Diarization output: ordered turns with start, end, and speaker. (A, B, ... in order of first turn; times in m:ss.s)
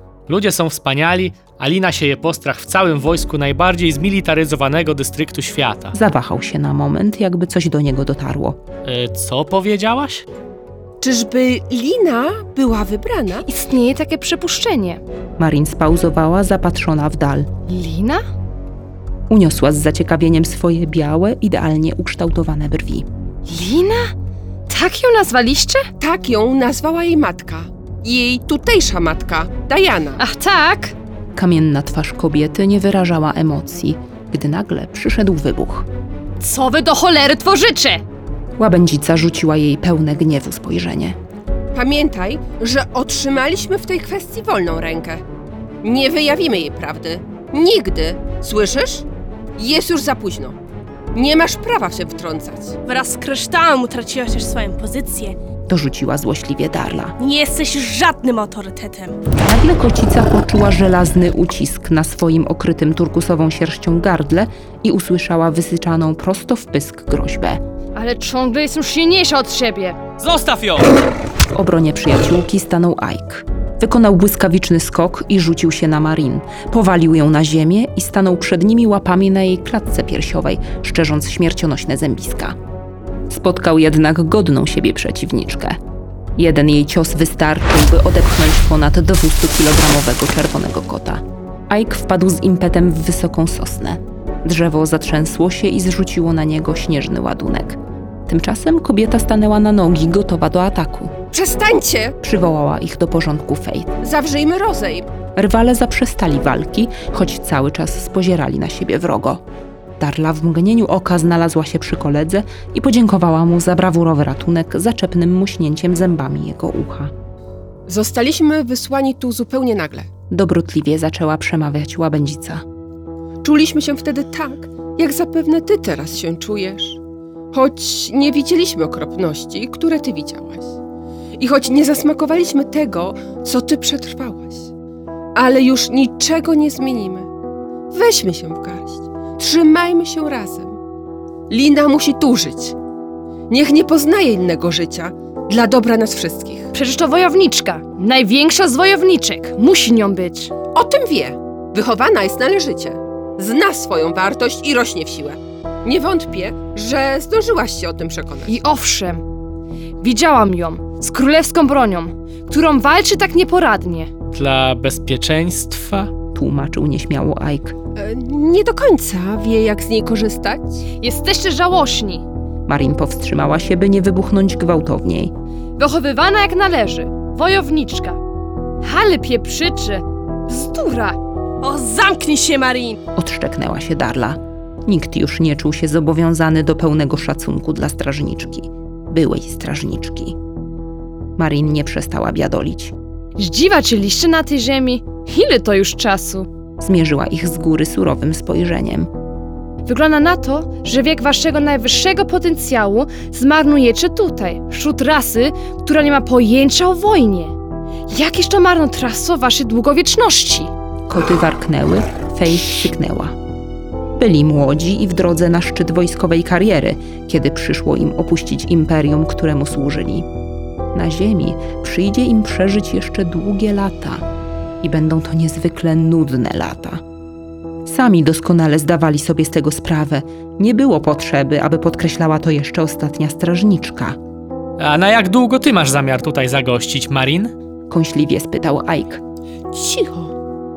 0:00.3-0:05.9 A
0:05.9-0:08.6 B
0:08.8-0:10.2 A
0:11.0-0:13.4 C
0:13.5-0:15.0 D
0:15.4-0:17.5 B
0:17.7-0:18.2 D
0:19.3-0:23.0 B
0:23.5-0:24.1 D
0:24.7-0:25.9 D
0:26.0-0:30.2 C
0:30.2-0:30.9 D
0:31.4-0:35.9 B
0:36.4-0:38.0 D
0:38.6-0:41.2 B
0:41.7-0:45.2 C
0:45.8-0:50.6 C
0:51.1-0:52.8 C
0:52.8-0:55.4 E
0:55.7-0:57.1 B
0:57.2-0:59.2 E
0:59.4-1:07.6 B
1:07.9-1:10.0 D
1:10.2-1:10.9 A
1:11.5-1:22.6 B
1:23.3-1:25.8 B
1:26.4-1:41.1 B
1:41.3-1:42.2 C
1:42.2-1:43.9 B
1:44.0-1:45.1 C
1:45.4-1:49.4 B
1:50.0-1:57.1 B
1:57.9-2:00.1 C
2:00.3-2:02.6 B
2:03.4-2:07.0 C
2:07.5-2:10.8 C
2:11.4-2:14.7 C
2:15.3-2:17.3 C
2:17.9-2:20.8 C
2:21.5-2:22.8 C
2:23.5-2:26.7 C
2:26.7-2:30.5 D
2:30.7-2:38.6 C
2:38.5-2:39.2 D
2:40.0-2:44.1 D
2:44.3-2:46.1 A
2:46.3-2:47.7 B
2:47.9-2:50.8 C
2:51.0-2:52.2 D
2:52.7-2:55.3 B
2:55.8-2:58.2 D
2:58.8-3:01.2 D
3:01.6-3:03.0 E
3:03.1-3:10.3 B
3:11.4-3:12.9 B
3:13.4-3:16.5 D
3:16.8-3:19.1 B
3:19.8-3:27.5 D
3:28.1-3:30.7 D
3:31.1-3:33.4 B
3:34.2-3:40.3 B
3:40.9-3:44.2 B
3:44.8-3:47.0 B
3:47.8-3:54.2 B
3:54.8-3:57.5 A
3:57.9-3:59.2 B
3:59.7-4:00.3 C